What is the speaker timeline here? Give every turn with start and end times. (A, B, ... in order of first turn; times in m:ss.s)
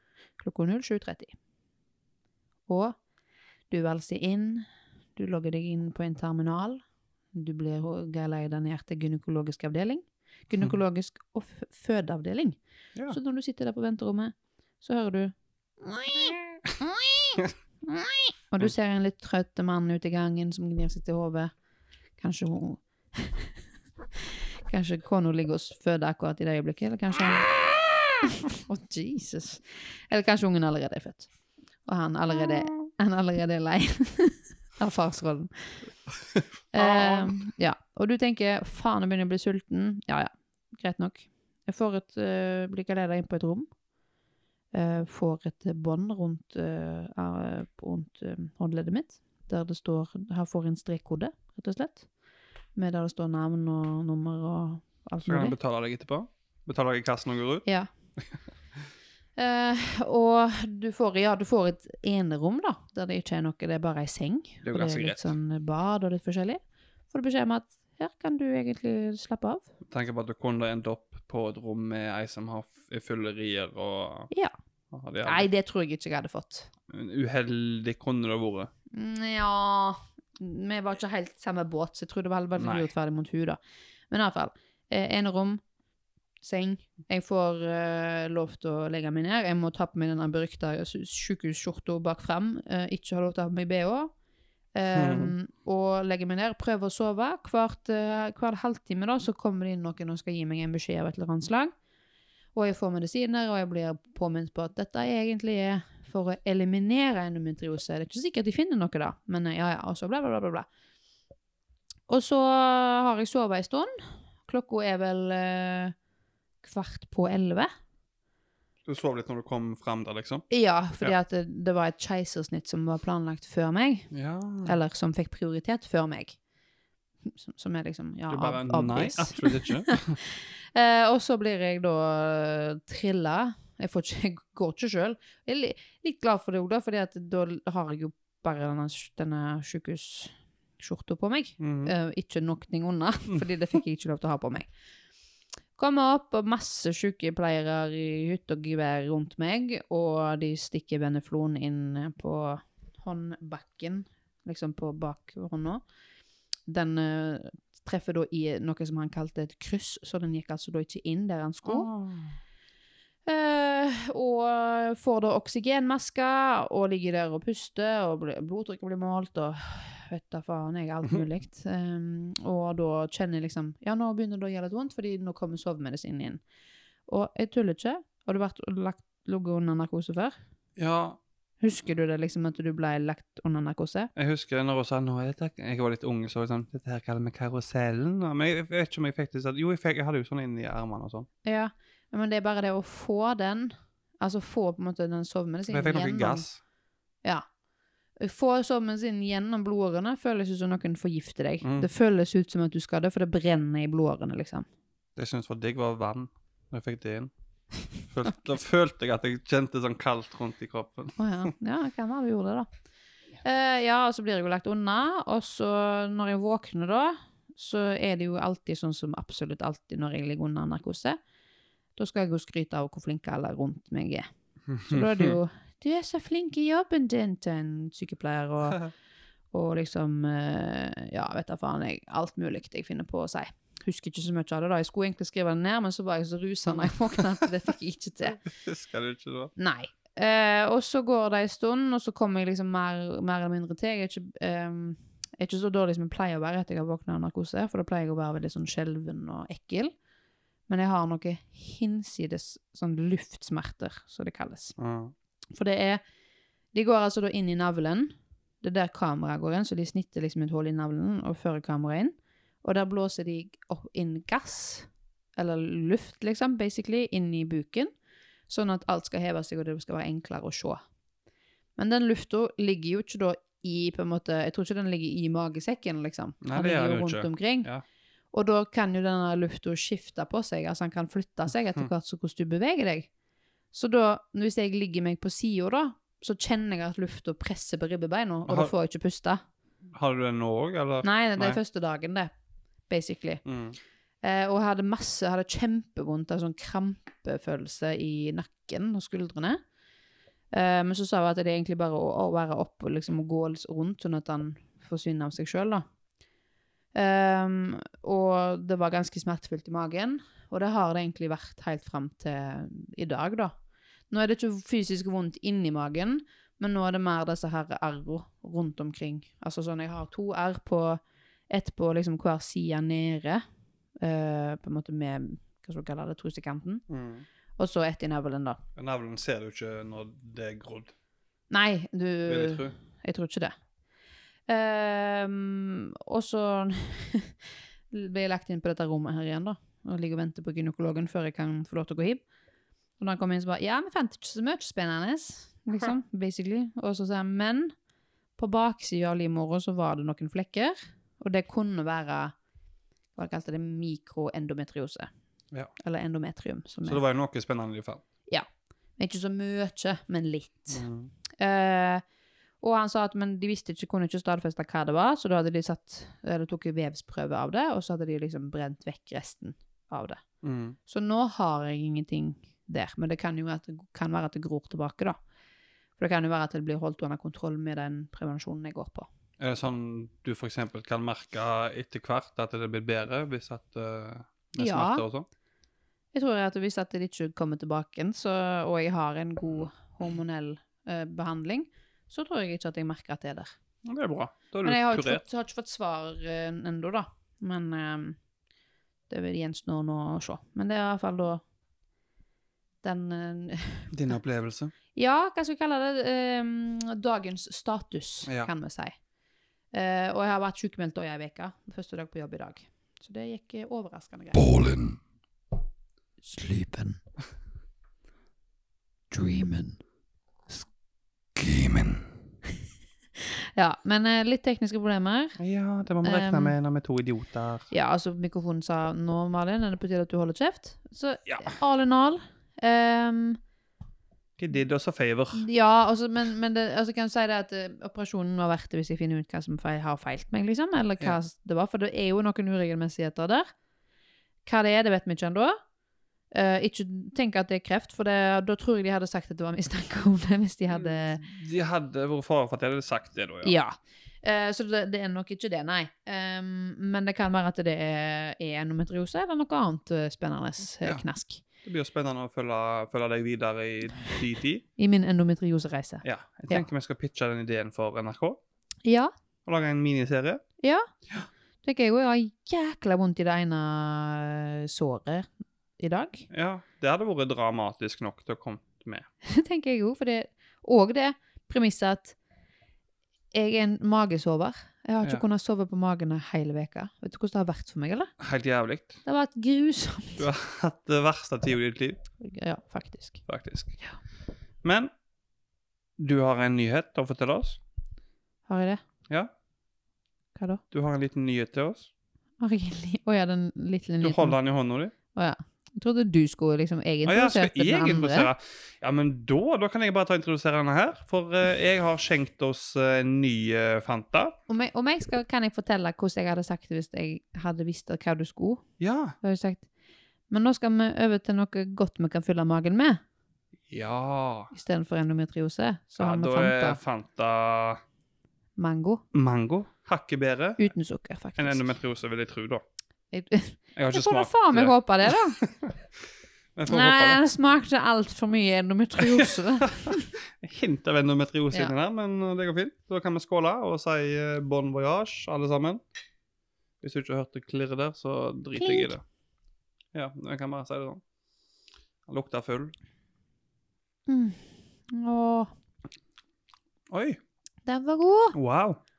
0:00.4-0:01.3 A
0:02.7-0:03.0 A
0:03.7-0:04.6 A
0:05.2-0:06.8 A
0:07.3-0:12.6 A
0:13.1-0:21.5 A
0:22.2-0:23.6 A
0:24.1-0:31.3 A
0:31.8-0:35.8 A
0:36.3-0:37.4 B
0:36.7-0:43.7 A
0:44.7-0:52.1 A
0:52.7-0:55.5 A
0:55.2-0:57.7 B
0:59.4-1:06.6 A
1:04.6-1:05.3 B
1:07.1-1:09.6 A
1:09.9-1:14.3 B
1:14.9-1:15.4 B
1:15.2-1:16.7 A
1:16.9-1:18.7 B
1:18.9-1:25.6 A
1:22.6-1:22.9 B
1:26.4-1:34.1 A
1:34.7-1:41.7 A
1:34.9-1:35.3 B
1:42.5-1:50.6 A
1:52.1-1:55.9 A
1:56.6-1:57.7 A
1:58.8-2:00.4 B
2:00.5-2:04.1 A
2:04.1-2:04.8 B
2:04.6-2:06.4 A
2:07.2-2:24.7 A
2:08.3-2:10.2 B
2:21.6-2:21.9 B
2:25.8-2:35.8 A
2:36.6-2:41.9 A
2:41.6-2:42.3 B
2:43.2-2:56.4 A
2:57.1-3:00.4 A
3:00.8-3:01.2 B
3:01.6-3:04.1 A
3:04.2-3:11.3 B
3:11.4-3:16.4 A
3:15.7-3:16.6 B
3:18.2-3:24.7 A
3:21.6-3:21.9 B
3:25.2-3:27.3 B
3:28.0-3:31.5 B
3:31.2-3:32.7 A
3:33.4-3:41.2 A
3:42.0-3:44.3 A
3:44.7-3:45.3 B
3:44.8-3:48.8 A
3:49.5-3:58.4 A
3:58.4-3:59.5 B
3:59.6-4:09.9 A
4:10.7-4:14.7 A
4:14.8-4:15.1 B
4:15.5-4:16.0 A
4:16.7-4:27.9 A
4:28.5-4:30.8 A
4:31.8-4:37.7 A
4:36.4-4:37.8 B
4:38.3-4:43.1 A
4:43.7-4:49.4 A
4:48.5-4:48.7 B
4:49.9-4:51.6 B
4:51.0-4:52.3 A
4:52.9-4:53.4 A
4:53.4-4:53.8 B
4:54.2-4:59.6 A
5:00.5-5:05.8 A
5:06.9-5:13.6 A
5:14.1-5:23.4 A
5:24.0-5:26.8 A
5:26.9-5:27.2 B
5:27.6-5:28.6 A
5:28.8-5:30.9 B
5:31.5-5:33.5 A
5:32.3-5:32.7 B
5:34.5-5:42.2 A
5:43.0-5:47.7 A
5:48.4-5:52.3 A
5:53.1-5:55.1 A
5:55.8-5:57.0 A
5:56.8-5:58.0 B
5:59.0-6:00.8 A
6:00.7-6:01.1 B
6:01.4-6:02.0 A
6:02.6-6:10.2 A
6:10.4-6:10.8 B
6:10.8-6:15.2 A
6:16.0-6:19.1 A
6:19.4-6:25.3 B
6:24.6-6:25.0 A
6:26.1-6:33.5 A
6:33.8-6:35.2 B
6:34.6-6:38.2 A
6:39.1-6:41.4 A
6:42.8-6:43.9 A
6:43.9-6:44.7 B
6:44.9-6:48.9 A
6:49.7-6:54.9 A
6:56.2-6:57.0 A
6:59.1-6:59.8 A
7:01.4-7:02.0 B
7:03.2-7:05.4 A
7:05.4-7:07.7 B
7:06.0-7:06.5 A
7:07.7-7:13.4 A
7:11.3-7:11.6 B
7:14.4-7:15.4 B
7:15.3-7:23.5 A
7:24.4-7:25.6 A
7:26.3-7:31.2 A
7:30.7-7:33.5 B
7:33.4-7:41.4 A
7:41.6-7:44.6 B
7:44.8-7:46.6 A
7:46.0-7:48.4 B
7:48.8-7:49.1 A
7:49.4-7:50.4 B
7:50.6-7:50.8 A
7:51.6-7:56.2 A
7:56.3-7:59.1 B
7:59.2-8:02.1 A
8:03.3-8:08.1 A
8:08.2-8:09.0 B
8:09.0-8:10.3 A
8:10.2-8:12.0 B
8:12.2-8:13.2 A
8:13.3-8:13.8 B
8:14.6-8:14.9 B
8:16.0-8:17.6 B
8:18.5-8:18.8 A
8:20.4-8:20.6 A
8:20.7-8:21.9 B
8:22.4-8:24.4 A
8:24.0-8:24.9 B
8:25.1-8:28.3 A
8:27.0-8:34.3 B
8:34.5-8:38.6 A
8:38.8-8:39.2 B
8:39.2-8:39.6 A
8:40.3-8:43.0 A
8:43.7-8:44.5 B
8:44.5-8:46.8 A
8:46.0-8:47.8 B
8:48.6-8:49.0 A
8:49.1-8:50.7 B
8:50.6-8:51.6 A
8:51.4-8:52.6 B
8:53.1-8:55.4 A
8:53.8-8:55.8 B
8:56.6-8:57.2 B
8:56.7-9:00.1 A
8:59.0-9:05.8 B
9:06.8-9:09.0 B
9:08.5-9:08.9 A
9:09.9-9:11.0 B
9:12.1-9:12.7 B
9:14.1-9:15.5 A
9:16.9-9:17.2 B
9:17.6-9:18.3 A
9:18.3-9:18.8 B